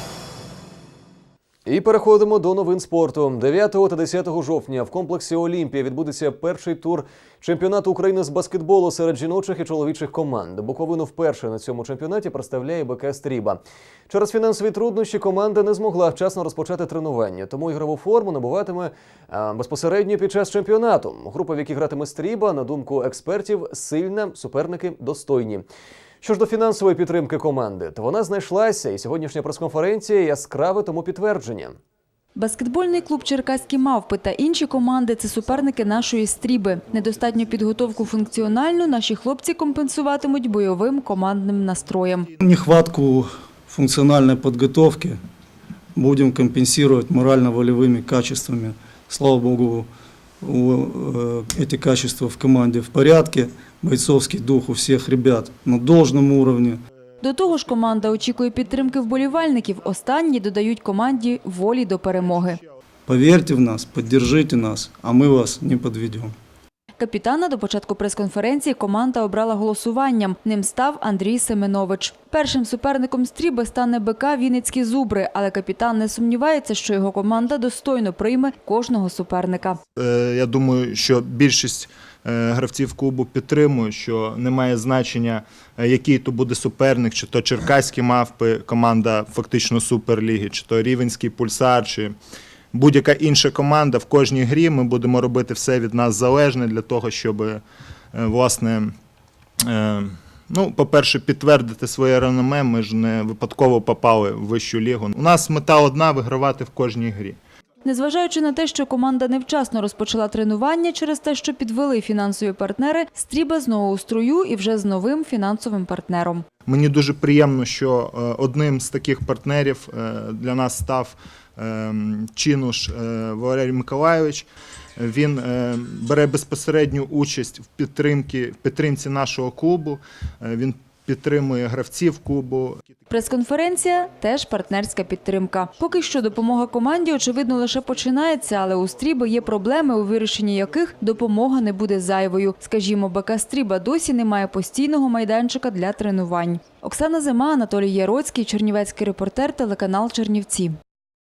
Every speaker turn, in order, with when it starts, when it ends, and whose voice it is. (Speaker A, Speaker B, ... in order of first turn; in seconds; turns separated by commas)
Speaker A: 1.6-25.6, Speaker A: 26.2-31.8, Speaker B: 32.4-42.3, Speaker C: 42.4-45.2, Speaker C: 45.9-49.9, Speaker C: 50.4-56.8, Speaker B: 57.2-62.6, Speaker C: 63.1-66.3, Speaker B: 67.0-79.8, Speaker D: 80.0-92.1, Speaker D: 92.7-97.6, Speaker D: 98.1-98.9, Speaker D: 99.6-107.4, Speaker B: 107.8-116.4, Speaker D: 116.7-124.5, Speaker D: 125.0-132.8, Speaker B: 133.1-150.7